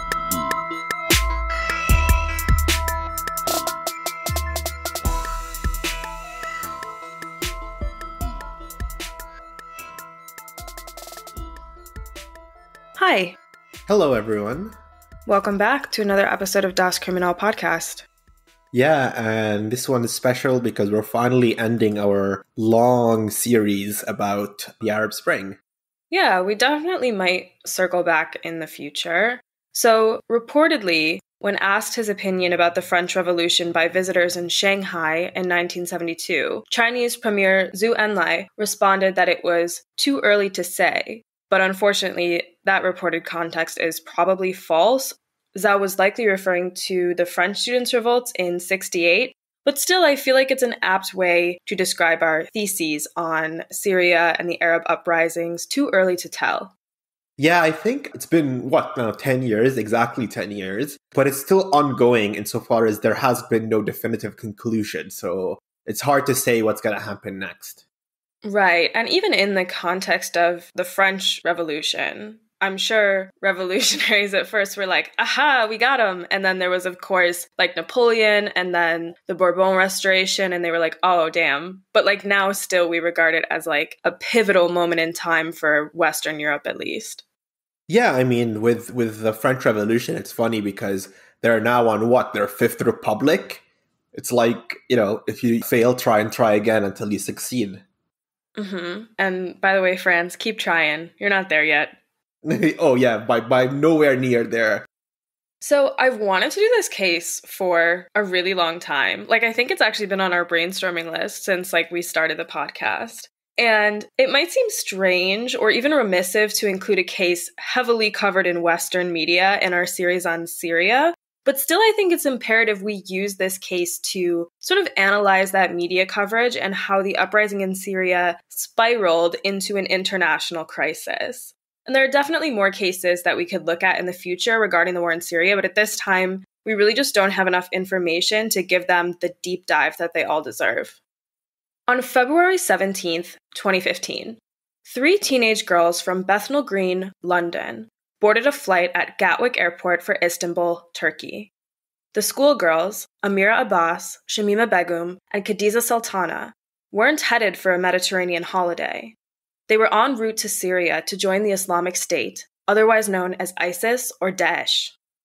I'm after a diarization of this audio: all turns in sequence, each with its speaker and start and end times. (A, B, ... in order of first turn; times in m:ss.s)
0:13.0-0:13.4 A
0:13.9-0:14.7 B
0:15.3-0:18.1 A
0:18.7-0:25.6 B
0:26.1-0:56.7 A
0:57.4-1:07.8 B
1:08.4-1:27.2 A
1:27.9-1:33.6 B
1:34.1-1:37.8 B
1:38.6-1:42.0 A
1:42.4-1:44.9 B
1:45.6-2:21.0 A
2:21.9-2:31.5 A
2:32.1-2:39.2 A
2:39.7-2:44.9 A